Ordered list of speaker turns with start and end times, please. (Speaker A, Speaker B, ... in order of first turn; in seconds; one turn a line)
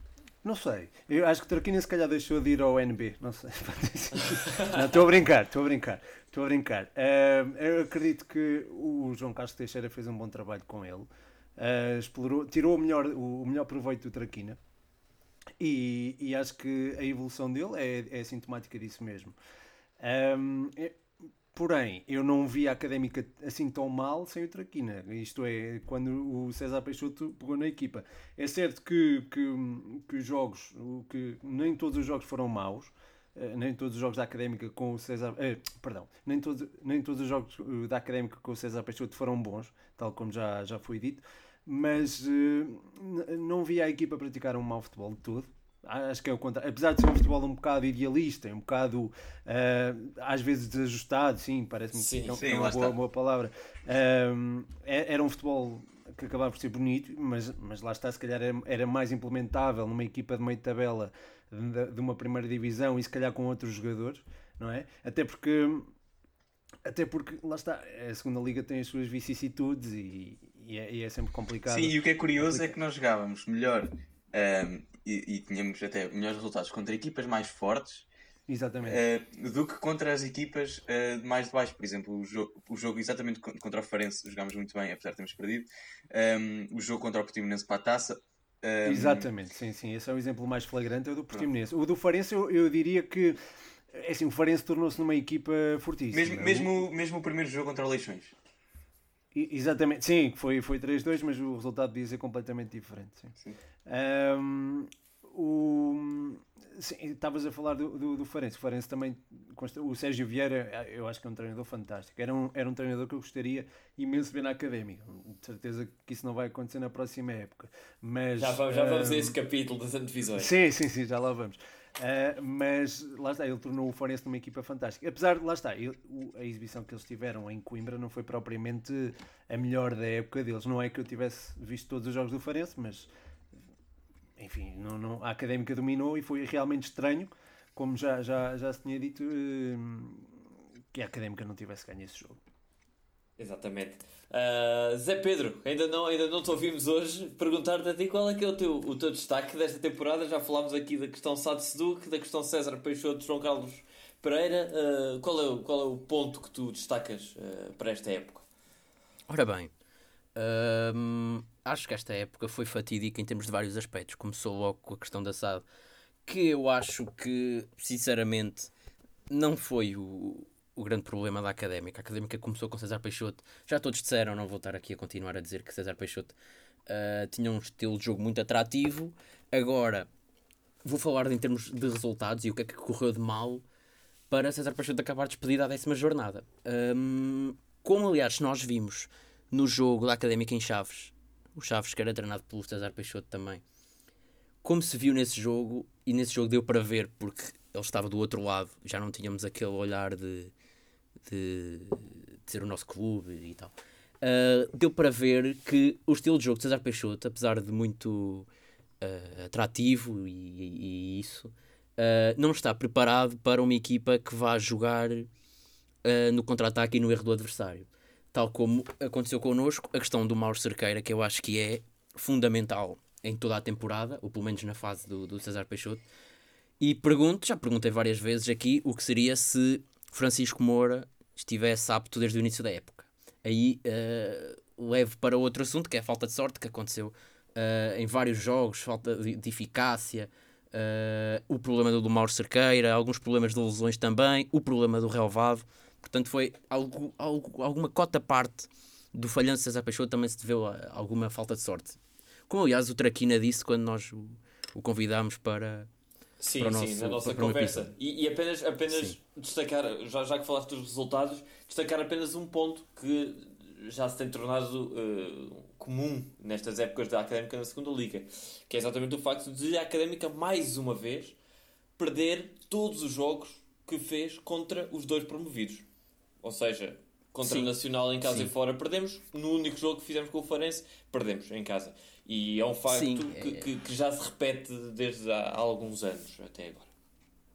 Speaker A: 0.4-14.6
Speaker A: 15.6-19.4
Speaker A: 20.0-21.0
Speaker A: 21.5-65.9
Speaker B: 52.0-52.4
Speaker C: 52.4-53.0
Speaker A: 66.9-72.7
Speaker C: 71.7-78.1
Speaker A: 78.5-79.0
Speaker C: 78.8-89.3
Speaker A: 88.8-93.4
Speaker A: 93.9-96.7
Speaker C: 96.1-98.3
Speaker A: 99.3-103.3
Speaker A: 103.9-119.4
Speaker B: 118.4-120.5
Speaker A: 120.4-133.1
Speaker A: 134.4-140.3
Speaker A: 140.9-142.4
Speaker B: 143.4-158.5
Speaker D: 159.3-159.7
Speaker D: 160.3-165.7
Speaker D: 166.2-168.7
Speaker D: 169.3-176.3
Speaker D: 176.9-180.1
Speaker D: 180.8-183.6
Speaker D: 184.3-193.6
Speaker D: 194.6-200.5
Speaker D: 201.2-208.5
Speaker D: 209.0-215.3
Speaker D: 216.0-226.0
Speaker D: 226.8-255.9
Speaker B: 256.4-271.4
Speaker D: 256.6-257.9
Speaker D: 258.9-259.2
Speaker B: 272.0-275.9
Speaker B: 276.4-286.9
Speaker D: 277.4-277.7
Speaker D: 278.2-278.5
Speaker D: 282.9-283.7